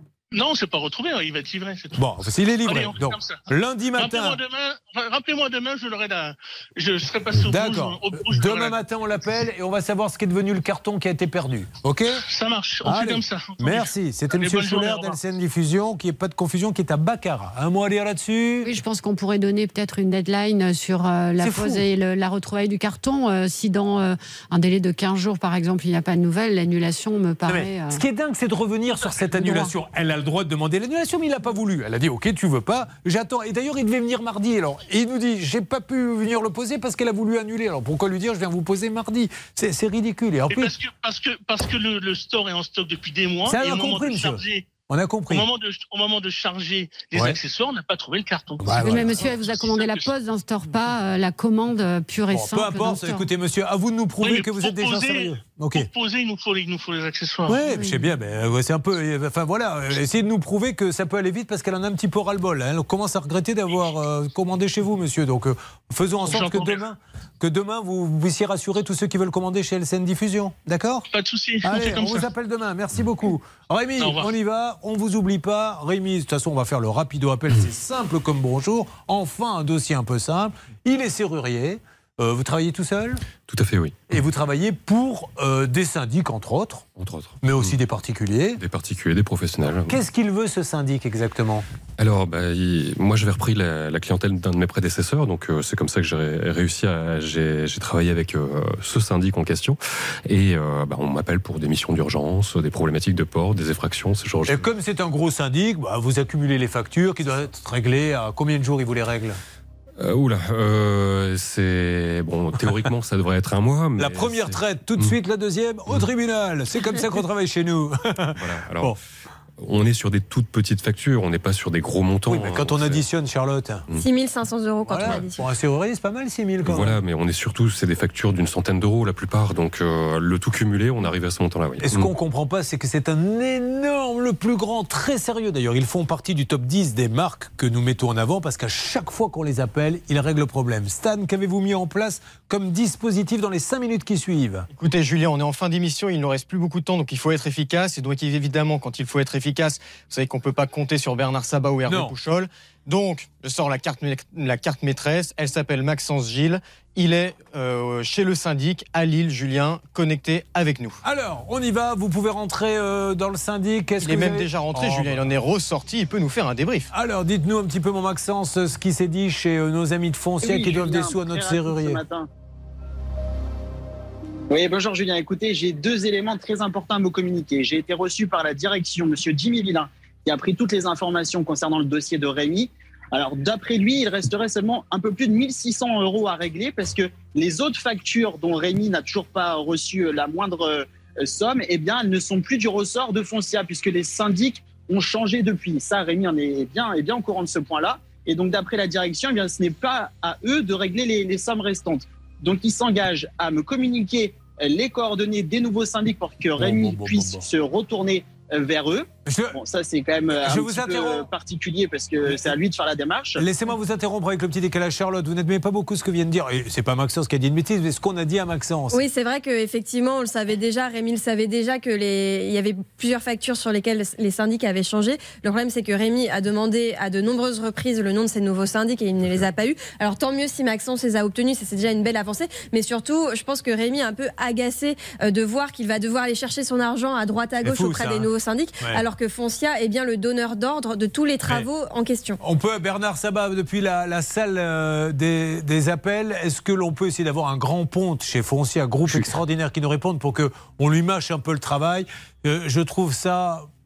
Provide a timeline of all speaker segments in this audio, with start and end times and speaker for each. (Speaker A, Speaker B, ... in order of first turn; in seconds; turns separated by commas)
Speaker A: 0.3-2.0, Speaker B: 1.9-4.4, Speaker A: 2.6-3.4, Speaker A: 4.0-8.8, Speaker B: 7.3-12.2, Speaker A: 12.3-15.2, Speaker B: 12.8-18.7, Speaker C: 18.6-28.0, Speaker B: 21.4-21.8, Speaker B: 27.5-40.7, Speaker C: 29.4-29.7, Speaker A: 40.5-44.7, Speaker B: 43.5-45.5, Speaker A: 45.3-50.1, Speaker B: 48.6-49.2, Speaker C: 48.8-53.2, Speaker B: 52.3-55.9, Speaker A: 54.2-57.6, Speaker B: 57.5-71.1, Speaker C: 57.7-58.0, Speaker A: 66.2-66.8, Speaker A: 71.1-72.2, Speaker B: 71.6-83.2, Speaker A: 74.0-74.3, Speaker D: 83.4-84.0, Speaker B: 84.1-86.9, Speaker D: 87.0-87.8, Speaker B: 87.4-88.6, Speaker D: 88.6-90.0, Speaker B: 89.9-91.7, Speaker D: 92.0-104.7, Speaker B: 104.5-109.4, Speaker D: 110.0-115.1, Speaker B: 114.0-119.0, Speaker D: 118.3-118.9, Speaker D: 119.6-123.0, Speaker B: 122.3-123.8, Speaker E: 123.9-125.5, Speaker B: 124.9-127.0, Speaker D: 126.6-132.1, Speaker B: 131.8-144.7, Speaker F: 144.8-161.0, Speaker B: 151.9-152.1, Speaker B: 161.0-165.3, Speaker F: 164.0-166.9, Speaker B: 166.9-172.0, Speaker G: 170.4-172.3, Speaker G: 174.5-213.4, Speaker B: 206.6-207.4, Speaker B: 209.3-209.6, Speaker B: 210.4-211.3, Speaker B: 213.4-219.0, Speaker E: 218.9-242.4, Speaker B: 237.6-238.3, Speaker B: 242.4-253.7